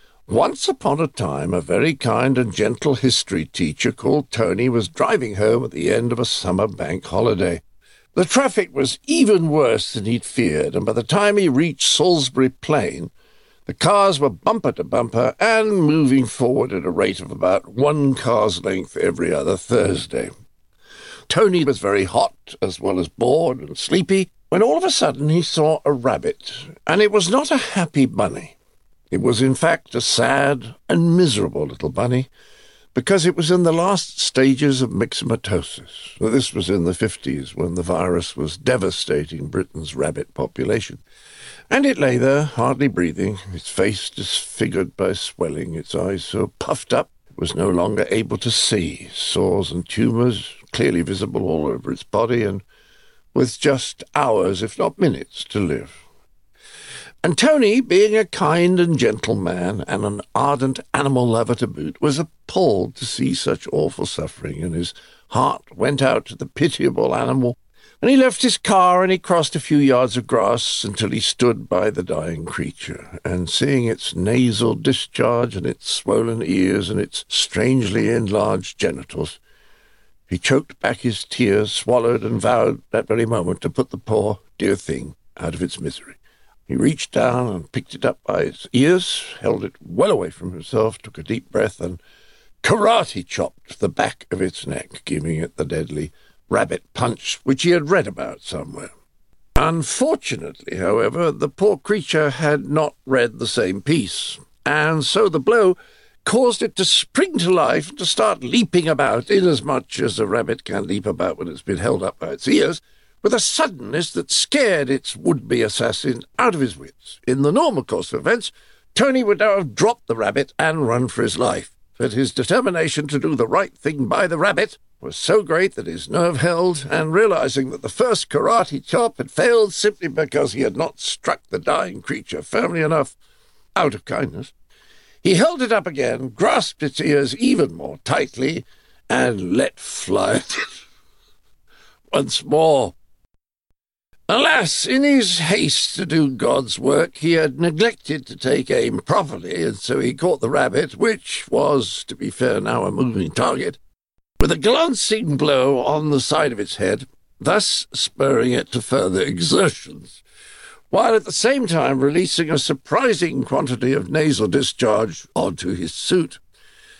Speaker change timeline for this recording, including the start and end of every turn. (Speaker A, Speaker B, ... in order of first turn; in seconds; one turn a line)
Speaker A: 0.3-7.6
Speaker A: 8.1-13.1
Speaker A: 13.7-20.3
Speaker A: 21.3-28.5
Speaker A: 29.1-32.3
Speaker A: 32.9-41.0
Speaker A: 41.7-52.6
Speaker A: 53.3-56.0
Speaker A: 57.2-79.4
Speaker A: 80.3-92.0
Speaker A: 92.6-98.9
Speaker A: 99.6-133.2
Speaker A: 133.7-134.5
Speaker A: 135.2-140.7
Speaker A: 142.1-142.9
Speaker A: 144.3-153.8
Speaker A: 154.4-160.2
Speaker A: 160.9-166.4